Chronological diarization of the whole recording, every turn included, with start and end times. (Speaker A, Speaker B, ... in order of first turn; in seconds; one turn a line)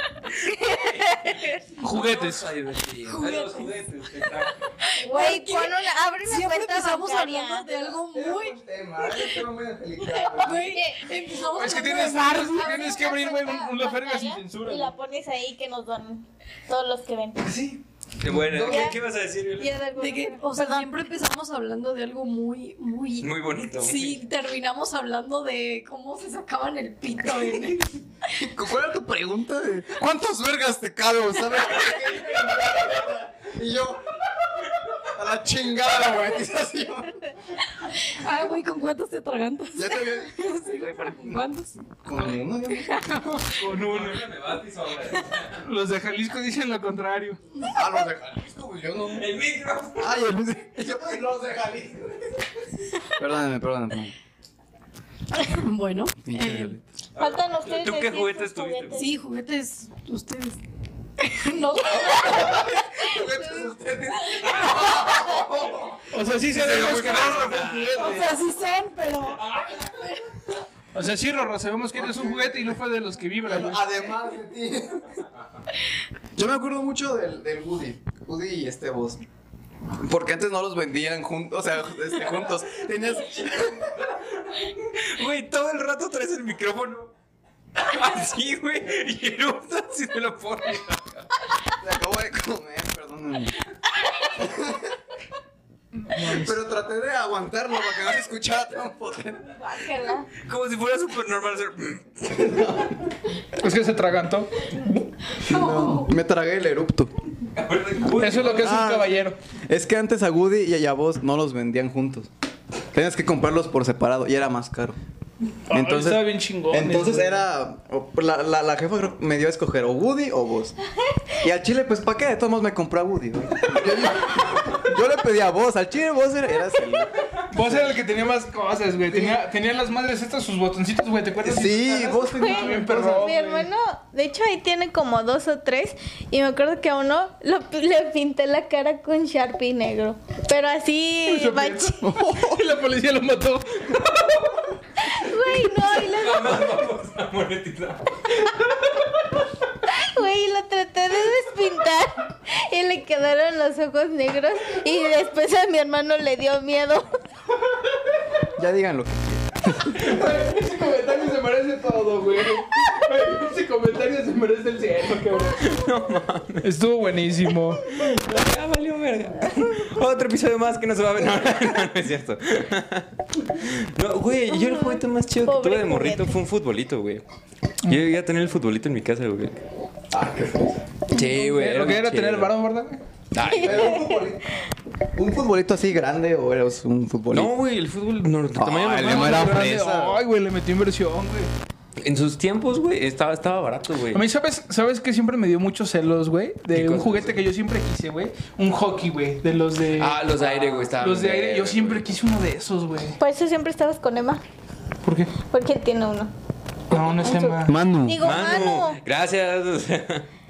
Speaker A: 0.5-1.5
Speaker B: 0.5-4.7
Speaker C: 1.8-2.5
Speaker D: 3.0-3.7
Speaker D: 4.8-9.4
Speaker A: 5.0-7.9
Speaker E: 8.1-10.8
Speaker D: 10.0-13.5
Speaker A: 10.6-11.1
Speaker C: 11.5-14.9
Speaker A: 11.9-17.6
Speaker E: 17.4-18.9
Speaker B: 18.2-19.8
Speaker A: 18.6-19.0
Speaker A: 19.5-20.9
Speaker D: 19.9-28.0
Speaker B: 23.2-24.2
Speaker E: 28.3-37.3
Speaker D: 37.9-41.8
Speaker E: 39.8-40.5
Speaker E: 42.0-43.0
Speaker D: 42.7-43.6
Speaker C: 43.5-44.3
Speaker B: 43.6-45.7
Speaker C: 45.6-47.4
Speaker E: 47.7-49.3
Speaker B: 49.1-50.6
Speaker E: 50.0-52.5
Speaker E: 53.0-54.1
Speaker D: 55.4-56.8
Speaker E: 56.2-56.8
Speaker B: 57.1-59.1
Speaker A: 57.2-59.1
Speaker D: 58.9-60.6
Speaker D: 61.2-62.6
Speaker E: 62.1-66.1
Speaker B: 64.5-65.1
Speaker C: 66.1-68.2
Speaker B: 66.4-68.2
Speaker D: 67.9-70.5
Speaker C: 70.9-73.9
Speaker E: 71.9-72.8
Speaker E: 73.4-75.2
Speaker E: 76.3-79.2
Speaker E: 79.9-83.9
Speaker B: 83.6-87.1
Speaker B: 87.8-91.3
Speaker E: 91.8-93.5
Speaker E: 94.3-94.9
Speaker C: 96.0-96.6
Speaker E: 96.2-99.5
Speaker A: 99.5-100.3
Speaker B: 100.4-102.7
Speaker E: 102.3-103.0
Speaker C: 103.5-105.1
Speaker D: 105.3-106.1
Speaker E: 105.4-107.1
Speaker B: 107.5-108.8
Speaker C: 108.1-109.4
Speaker E: 108.5-112.3
Speaker E: 112.9-115.0
Speaker C: 115.7-117.4
Speaker E: 115.7-120.8
Speaker E: 121.4-127.9
Speaker C: 127.5-133.7
Speaker E: 129.1-129.4
Speaker E: 131.4-133.3
Speaker A: 132.3-142.0
Speaker C: 141.2-144.6
Speaker E: 142.0-142.7
Speaker A: 145.0-146.9
Speaker B: 145.8-148.5
Speaker A: 149.8-157.2
Speaker E: 158.6-160.2
Speaker C: 159.9-165.6
Speaker B: 165.5-166.7
Speaker C: 166.6-167.9
Speaker B: 167.9-177.2
Speaker A: 174.5-176.4
Speaker B: 177.9-179.6
Speaker E: 180.1-180.9
Speaker B: 181.1-182.5
Speaker C: 181.3-183.0
Speaker B: 183.3-184.1
Speaker A: 183.4-184.1
Speaker E: 183.5-184.5
Speaker E: 185.1-187.5
Speaker B: 187.3-189.7
Speaker E: 188.6-190.2
Speaker C: 189.0-191.5
Speaker B: 192.0-194.2
Speaker C: 194.1-203.2
Speaker B: 196.7-197.4
Speaker B: 200.0-202.1
Speaker A: 203.2-204.4
Speaker C: 205.0-205.4
Speaker A: 205.4-206.3
Speaker C: 206.9-207.8
Speaker A: 207.1-209.0
Speaker E: 207.6-208.3
Speaker B: 208.2-210.3